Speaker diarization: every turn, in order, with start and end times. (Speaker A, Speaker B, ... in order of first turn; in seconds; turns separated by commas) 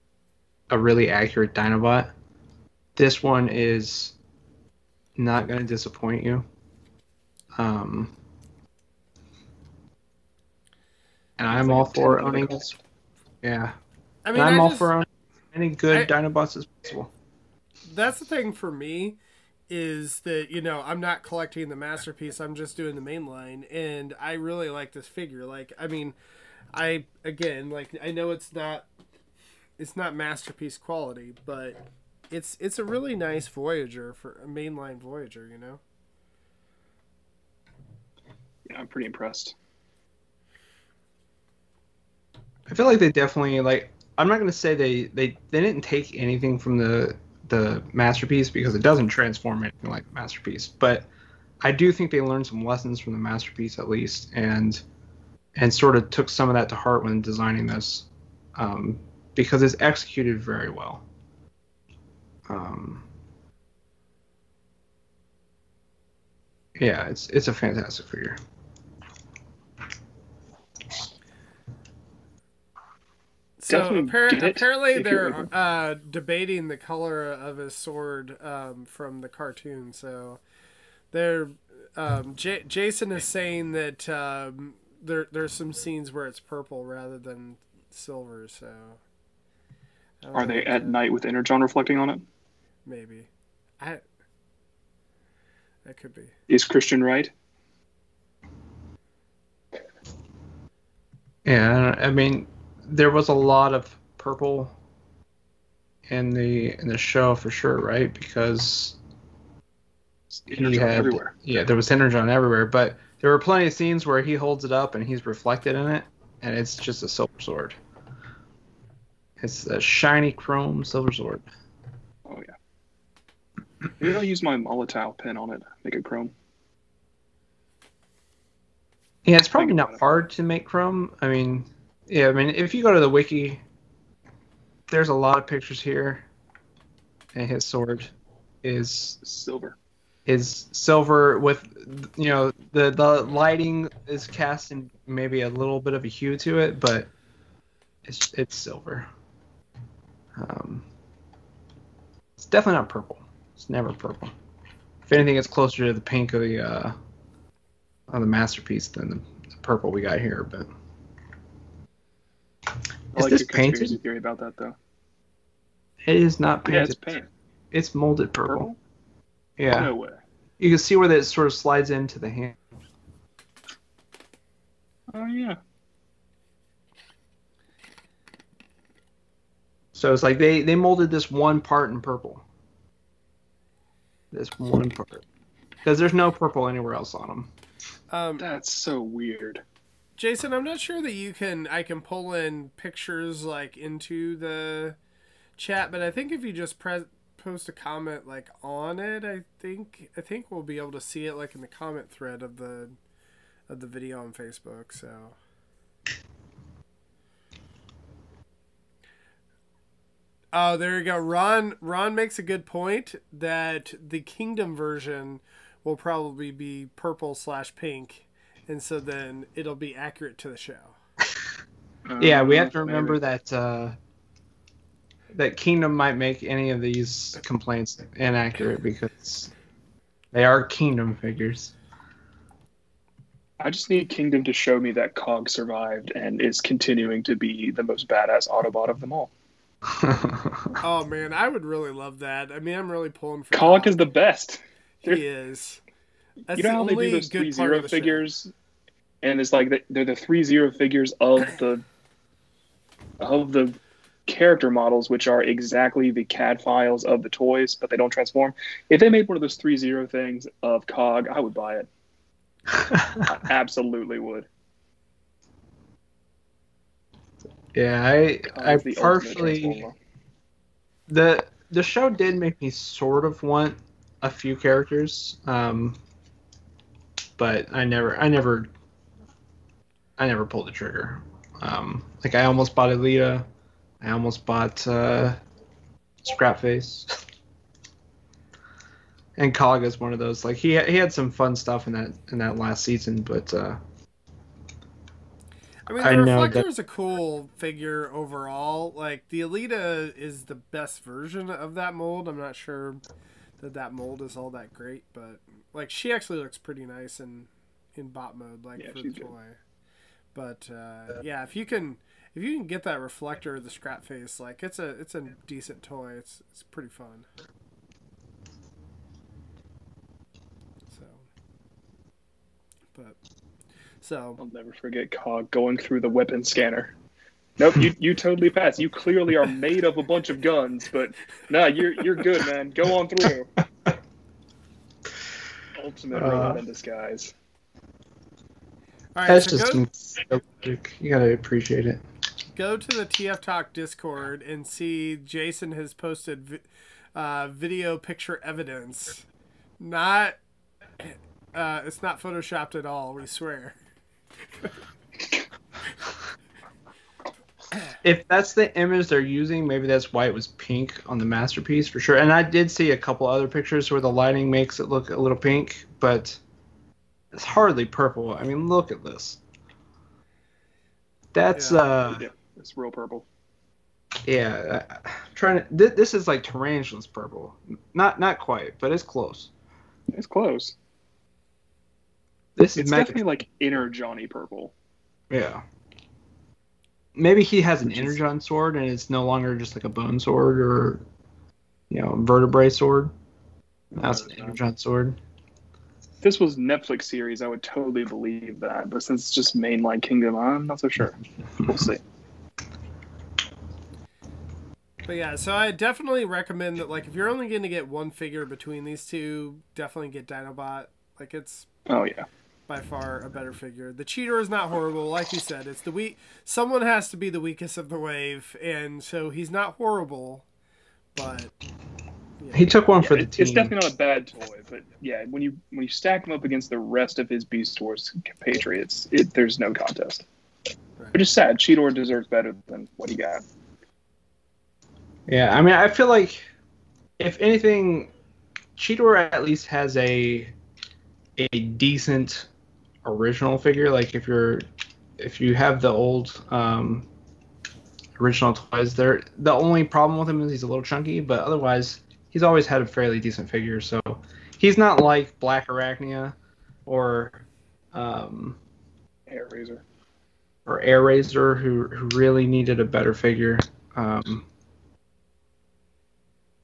Speaker A: 0.7-2.1, Speaker A: 3.0-4.2, Speaker A: 5.2-6.5, Speaker A: 7.6-8.1, Speaker A: 11.4-12.8, Speaker B: 11.5-12.6, Speaker A: 13.4-13.7, Speaker C: 14.2-14.9, Speaker A: 14.3-17.1, Speaker C: 17.9-19.2, Speaker C: 19.7-26.1, Speaker C: 26.7-28.9, Speaker C: 29.8-31.8, Speaker C: 32.3-35.8, Speaker B: 38.7-39.5, Speaker A: 42.7-51.1, Speaker A: 51.6-54.8, Speaker A: 55.5-61.0, Speaker A: 62.5-63.0, Speaker A: 66.8-68.4, Speaker C: 73.6-80.4, Speaker B: 73.7-75.5, Speaker C: 81.1-89.0, Speaker C: 90.2-91.0, Speaker B: 90.3-92.2, Speaker C: 92.8-93.3, Speaker C: 95.8-96.3, Speaker B: 96.5-97.3, Speaker A: 101.4-104.7, Speaker A: 106.1-109.0, Speaker B: 110.3-111.3, Speaker A: 110.5-117.8, Speaker A: 119.4-121.5, Speaker B: 122.2-122.5, Speaker B: 124.0-126.3, Speaker A: 129.2-133.6, Speaker B: 129.6-130.0, Speaker A: 134.9-136.2, Speaker A: 137.3-139.2, Speaker B: 139.2-139.8, Speaker A: 140.2-147.1, Speaker A: 148.0-149.1, Speaker A: 150.4-150.9, Speaker A: 152.4-154.3, Speaker A: 155.0-156.9, Speaker A: 158.1-160.7, Speaker B: 163.1-164.7, Speaker A: 163.1-164.0, Speaker A: 166.1-167.0, Speaker B: 166.7-167.3, Speaker A: 167.7-168.7, Speaker B: 168.4-168.8, Speaker A: 169.6-169.9, Speaker B: 169.7-170.2, Speaker A: 170.6-172.7, Speaker B: 175.1-175.6, Speaker A: 179.9-182.4, Speaker A: 184.3-185.2, Speaker A: 185.8-187.5, Speaker C: 188.1-188.4, Speaker B: 188.4-189.6, Speaker C: 190.2-195.0, Speaker C: 195.6-202.9, Speaker C: 203.7-205.4, Speaker C: 210.5-221.0, Speaker B: 222.1-223.2, Speaker A: 222.2-224.0, Speaker A: 225.3-229.5, Speaker A: 230.3-231.7, Speaker B: 233.6-239.3, Speaker A: 239.9-240.8, Speaker C: 240.8-244.0, Speaker B: 243.5-245.2, Speaker C: 245.0-245.8, Speaker C: 246.5-248.2, Speaker B: 246.5-248.5, Speaker B: 249.2-251.8, Speaker B: 253.2-261.9, Speaker A: 262.9-263.2, Speaker B: 263.2-264.5, Speaker A: 267.7-269.8, Speaker B: 268.5-269.9, Speaker A: 271.1-276.0, Speaker A: 277.4-278.7, Speaker A: 280.2-283.4, Speaker A: 284.0-285.4, Speaker A: 286.2-287.1, Speaker A: 289.4-293.8, Speaker C: 295.9-303.0, Speaker A: 296.0-296.6, Speaker C: 303.6-309.6, Speaker B: 308.8-309.3, Speaker C: 310.3-317.3, Speaker C: 320.9-321.2, Speaker C: 324.0-324.4, Speaker B: 324.4-326.9, Speaker B: 327.6-333.5, Speaker B: 335.8-337.3, Speaker A: 336.1-336.6, Speaker C: 339.1-339.8, Speaker A: 339.2-342.0, Speaker C: 342.5-349.2, Speaker C: 349.8-350.4, Speaker C: 351.0-353.8, Speaker A: 358.0-366.4, Speaker A: 367.3-369.4, Speaker A: 371.3-372.2, Speaker C: 371.5-371.8, Speaker B: 372.1-373.2, Speaker A: 374.2-379.5, Speaker B: 380.1-380.7, Speaker A: 382.6-383.2, Speaker B: 382.7-384.7, Speaker A: 385.3-385.6, Speaker A: 387.1-391.0, Speaker A: 391.9-393.1, Speaker B: 393.9-394.6, Speaker A: 393.9-395.2, Speaker B: 396.2-402.0, Speaker C: 405.0-411.7, Speaker B: 411.9-412.3, Speaker C: 412.7-420.4, Speaker C: 421.1-421.5, Speaker C: 422.4-422.7, Speaker A: 422.5-423.7, Speaker B: 423.0-430.2, Speaker B: 431.1-433.4, Speaker A: 435.3-436.5, Speaker A: 437.2-438.1, Speaker A: 438.8-440.5, Speaker A: 441.4-442.5, Speaker A: 443.0-444.6, Speaker A: 445.2-447.1, Speaker A: 448.2-458.6, Speaker B: 459.3-459.8, Speaker A: 460.6-464.5